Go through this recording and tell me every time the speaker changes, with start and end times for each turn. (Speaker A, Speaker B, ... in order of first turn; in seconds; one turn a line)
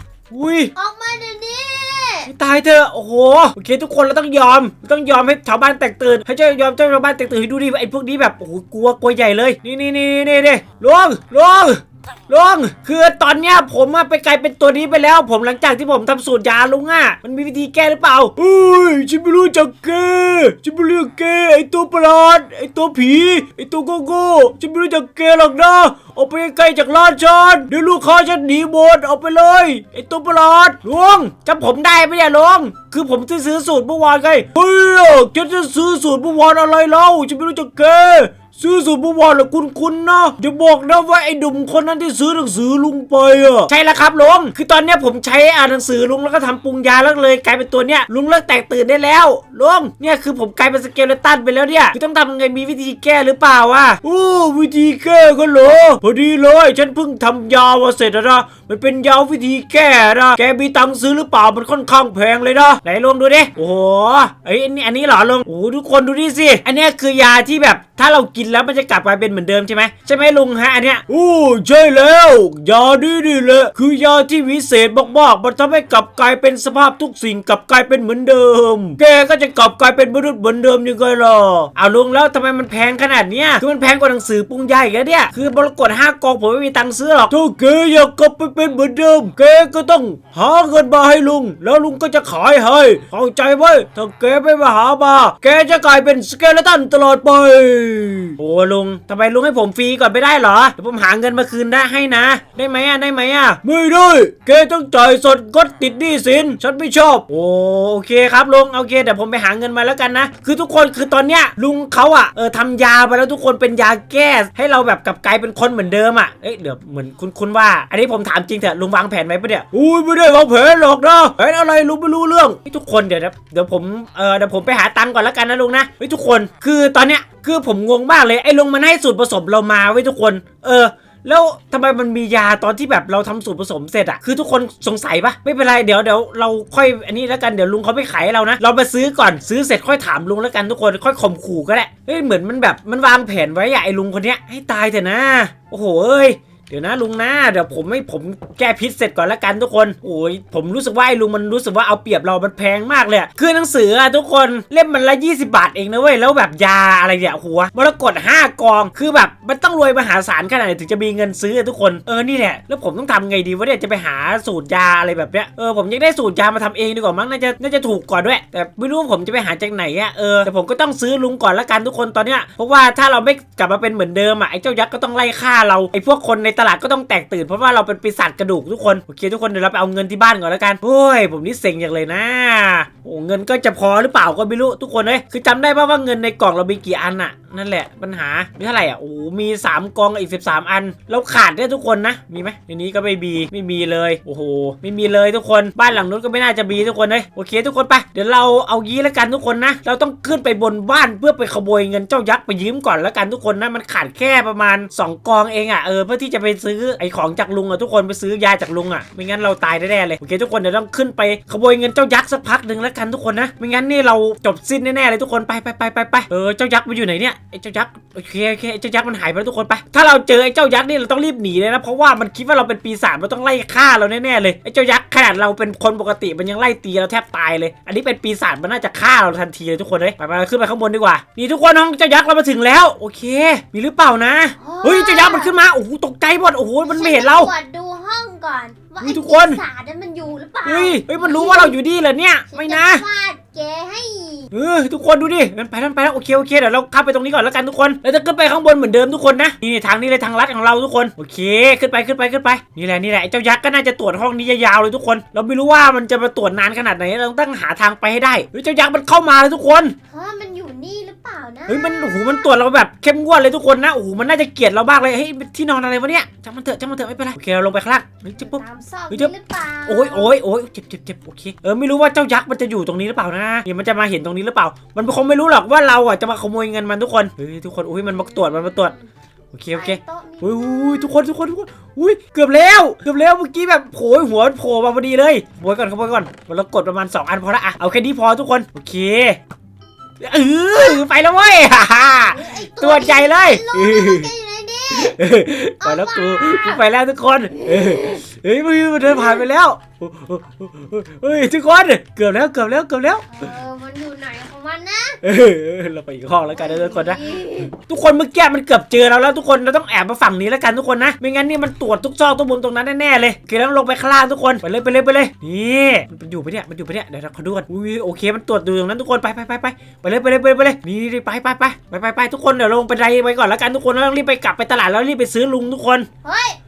Speaker A: 0.3-0.7
Speaker B: 0.7-2.3
Speaker A: 2.2-237.5
Speaker B: 234.6-235.5
Speaker B: 236.8-241.8
Speaker A: 239.0-239.6
Speaker A: 240.6-243.0
Speaker B: 242.5-244.5
Speaker A: 244.5-259.9
Speaker B: 260.1-262.5
Speaker A: 261.7-269.3
Speaker B: 268.4-270.4
Speaker A: 269.9-278.9
Speaker B: 278.1-279.1
Speaker A: 279.5-289.4
Speaker B: 279.7-281.1
Speaker A: 290.2-294.3
Speaker B: 292.2-295.2
Speaker A: 294.9-303.4
Speaker B: 295.8-296.8
Speaker B: 297.6-298.2
Speaker B: 303.3-305.2
Speaker A: 305.2-326.1
Speaker B: 306.5-307.7
Speaker B: 326.2-326.6